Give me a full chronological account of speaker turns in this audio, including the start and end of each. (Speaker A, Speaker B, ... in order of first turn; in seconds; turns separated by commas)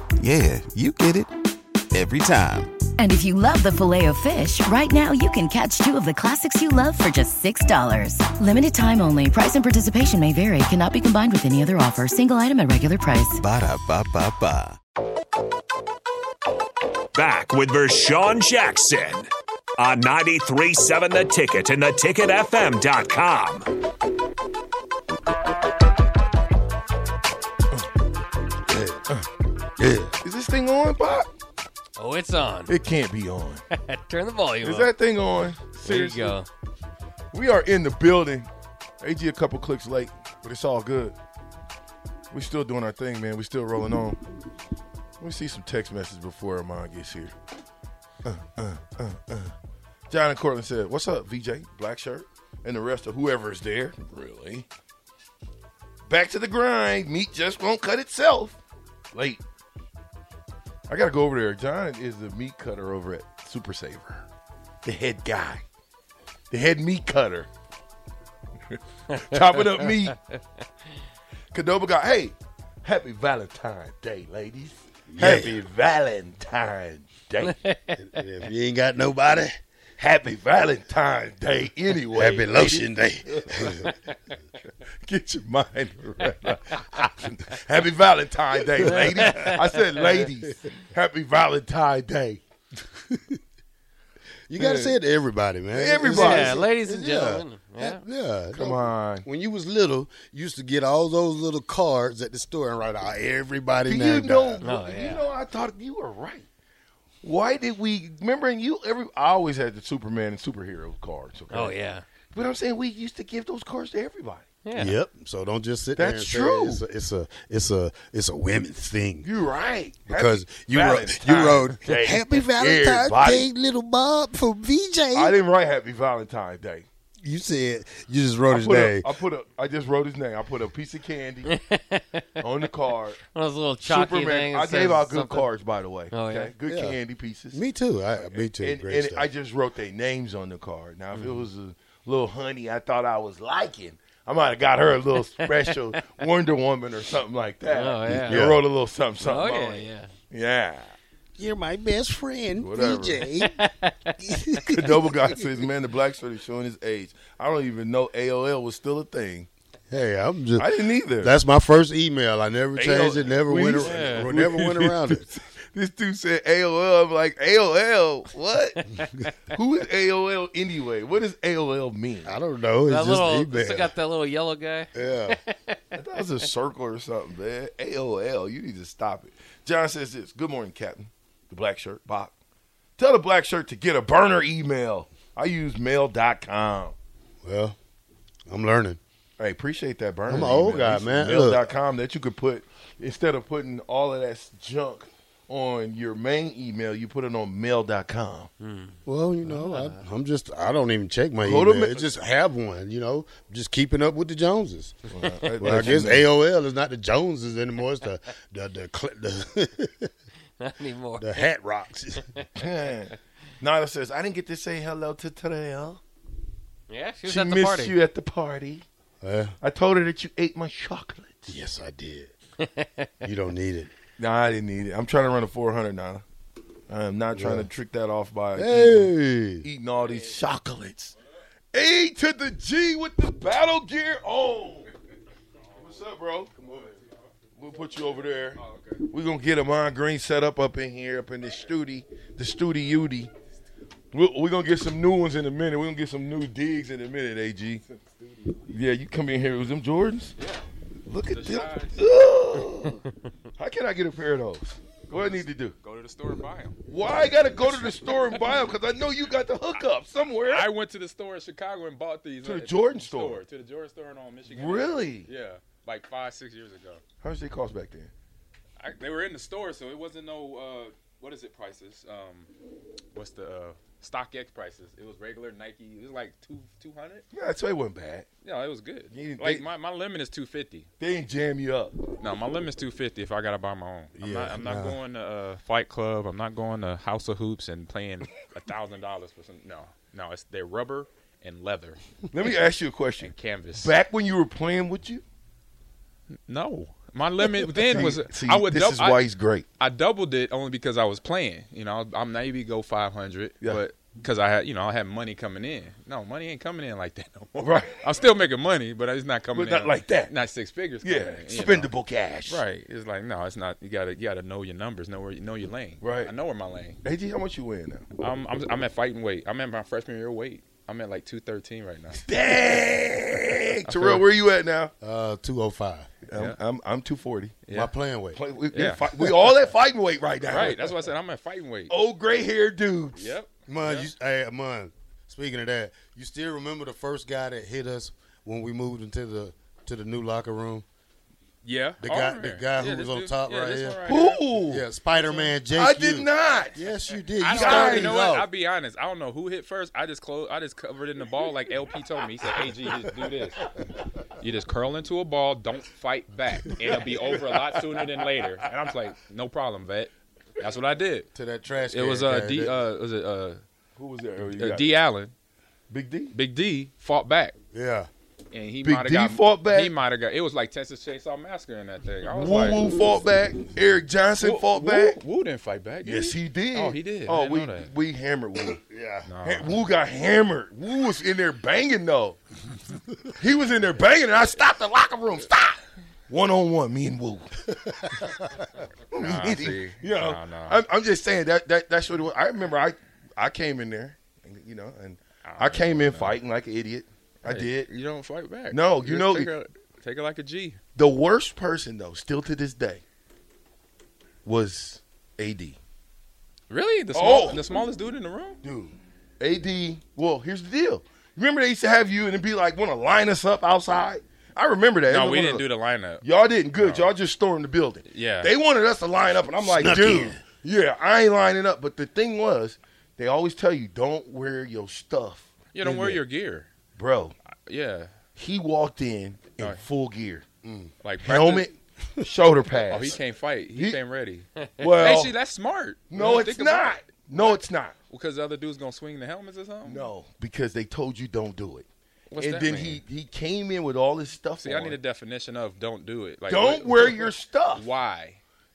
Speaker A: 0.2-1.3, Speaker A: 1.9-2.7, Speaker B: 3.0-13.4, Speaker A: 13.4-14.8, Speaker C: 17.1-23.7, Speaker D: 28.7-29.0, Speaker D: 29.8-30.1, Speaker E: 30.2-31.3, Speaker F: 32.0-32.7, Speaker E: 32.7-33.6, Speaker F: 33.7-34.9, Speaker E: 34.6-36.4, Speaker F: 35.8-36.5, Speaker E: 37.3-38.5, Speaker E: 39.0-41.1, Speaker E: 42.3-44.2, Speaker E: 45.2-47.3, Speaker E: 48.2-49.5, Speaker E: 50.1-54.6, Speaker E: 56.1-58.6, Speaker E: 59.1-59.4, Speaker E: 60.9-64.2, Speaker E: 64.8-65.6, Speaker E: 66.5-67.5, Speaker E: 68.7-70.2, Speaker E: 71.5-77.5, Speaker D: 75.1-75.6, Speaker F: 77.6-77.9, Speaker D: 78.0-79.6, Speaker E: 80.0-83.7, Speaker D: 82.1-83.9, Speaker E: 85.0-92.4, Speaker D: 88.8-89.4, Speaker D: 93.1-93.4, Speaker D: 94.5-104.6, Speaker F: 94.6-94.9, Speaker E: 95.7-96.7, Speaker F: 96.1-98.0, Speaker E: 98.5-99.2, Speaker E: 103.8-106.5, Speaker F: 104.6-105.3, Speaker E: 107.2-111.8, Speaker F: 111.5-112.0, Speaker E: 112.3-114.5, Speaker F: 114.6-114.9, Speaker D: 114.7-119.3, Speaker E: 116.0-116.8, Speaker E: 119.2-123.5, Speaker D: 120.0-125.3, Speaker E: 125.1-126.8, Speaker D: 127.2-129.1, Speaker E: 128.5-131.5, Speaker F: 131.5-132.4, Speaker E: 132.4-133.2, Speaker F: 133.3-135.5, Speaker E: 133.8-137.6, Speaker F: 136.1-136.5, Speaker D: 136.7-137.0, Speaker D: 137.5-139.3, Speaker E: 138.2-150.9, Speaker F: 141.1-141.4, Speaker F: 145.2-146.0, Speaker F: 147.7-148.4, Speaker D: 148.1-148.6, Speaker F: 149.2-150.1, Speaker D: 151.4-153.6, Speaker E: 152.6-153.2, Speaker F: 153.4-154.5, Speaker D: 154.2-155.5, Speaker E: 154.7-159.5, Speaker D: 159.9-165.3, Speaker E: 160.6-161.3, Speaker E: 162.8-168.8, Speaker F: 163.9-164.3, Speaker F: 169.0-169.3, Speaker E: 169.5-172.3, Speaker D: 172.2-173.9, Speaker F: 172.8-175.9, Speaker D: 174.9-175.4, Speaker E: 175.9-182.3, Speaker E: 183.0-186.9, Speaker D: 187.4-187.8, Speaker D: 188.5-189.0, Speaker E: 189.4-198.5, Speaker D: 190.3-191.6, Speaker F: 198.6-199.9, Speaker D: 199.1-210.1, Speaker E: 201.4-202.1, Speaker E: 205.1-206.3, Speaker F: 210.6-211.5, Speaker D: 211.2-212.4, Speaker E: 212.6-216.0, Speaker F: 216.9-217.9, Speaker E: 217.2-218.8, Speaker D: 219.2-219.5, Speaker E: 219.6-221.6, Speaker D: 221.5-222.3, Speaker F: 222.8-223.2, Speaker D: 223.2-223.9, Speaker E: 224.2-226.2, Speaker E: 226.9-231.1, Speaker D: 227.3-227.7, Speaker D: 228.6-229.7, Speaker E: 231.7-234.9, Speaker E: 235.8-236.9, Speaker E: 237.6-243.3, Speaker G: 238.6-239.0, Speaker E: 244.1-247.8, Speaker E: 248.7-250.3, Speaker E: 251.1-253.0, Speaker G: 251.3-252.0, Speaker E: 253.6-255.7, Speaker G: 255.1-256.8, Speaker E: 256.9-260.7, Speaker G: 257.7-258.6, Speaker G: 260.4-267.0, Speaker E: 262.4-263.4, Speaker E: 264.5-265.3, Speaker E: 267.2-268.1, Speaker G: 268.8-272.5, Speaker G: 273.1-277.2, Speaker E: 277.3-278.3, Speaker G: 278.4-280.9, Speaker E: 279.1-279.7, Speaker E: 281.0-282.0, Speaker G: 282.2-292.5, Speaker D: 284.2-285.0, Speaker E: 292.3-295.2, Speaker G: 293.2-293.9, Speaker G: 296.5-299.2, Speaker E: 297.8-299.6, Speaker G: 299.8-311.9, Speaker E: 307.6-308.0, Speaker E: 309.5-310.3, Speaker E: 311.0-312.6, Speaker G: 312.5-317.0, Speaker E: 316.0-316.3, Speaker E: 317.0-318.1, Speaker G: 318.2-322.3, Speaker E: 322.1-324.9, Speaker G: 323.9-324.2, Speaker D: 325.0-326.1, Speaker E: 326.3-327.6, Speaker G: 327.6-327.9, Speaker D: 327.7-328.4, Speaker E: 328.3-330.9, Speaker G: 328.7-329.1, Speaker G: 330.5-331.9, Speaker E: 331.9-333.3, Speaker G: 333.1-334.1, Speaker D: 333.7-340.8, Speaker G: 341.6-344.4, Speaker D: 342.0-344.1, Speaker E: 344.1-344.9, Speaker D: 344.6-348.5, Speaker E: 345.7-346.8, Speaker G: 347.4-353.7, Speaker E: 347.5-348.2, Speaker G: 354.3-361.3, Speaker D: 361.3-362.8, Speaker G: 361.9-363.6, Speaker E: 363.9-364.9, Speaker G: 364.5-365.3, Speaker E: 365.9-366.3, Speaker G: 366.3-367.5, Speaker D: 367.7-368.1, Speaker G: 368.5-372.8, Speaker E: 368.8-369.9, Speaker E: 372.3-375.2, Speaker G: 374.4-377.9, Speaker E: 376.0-378.8, Speaker D: 378.8-379.3, Speaker G: 379.2-379.7, Speaker E: 379.4-382.4, Speaker E: 383.4-387.6, Speaker E: 389.1-397.9, Speaker G: 389.2-390.8, Speaker G: 395.4-396.4, Speaker G: 397.4-400.8, Speaker E: 398.7-399.5, Speaker E: 400.9-403.0, Speaker E: 404.4-405.8, Speaker G: 406.7-408.6, Speaker E: 407.1-407.6, Speaker E: 408.6-415.7, Speaker G: 415.1-416.2, Speaker E: 416.2-426.2, Speaker G: 416.8-417.1, Speaker G: 418.1-418.5, Speaker D: 419.6-420.4, Speaker G: 425.7-426.7, Speaker E: 426.9-427.3, Speaker G: 427.6-428.1, Speaker E: 428.4-430.4, Speaker D: 430.6-430.9, Speaker G: 431.0-431.6, Speaker E: 431.2-433.2, Speaker G: 432.9-440.1, Speaker E: 433.7-434.0, Speaker E: 434.8-435.3, Speaker E: 436.1-437.9, Speaker E: 439.8-441.9, Speaker G: 442.3-443.0, Speaker E: 442.4-445.0, Speaker G: 444.6-448.4, Speaker E: 446.5-447.9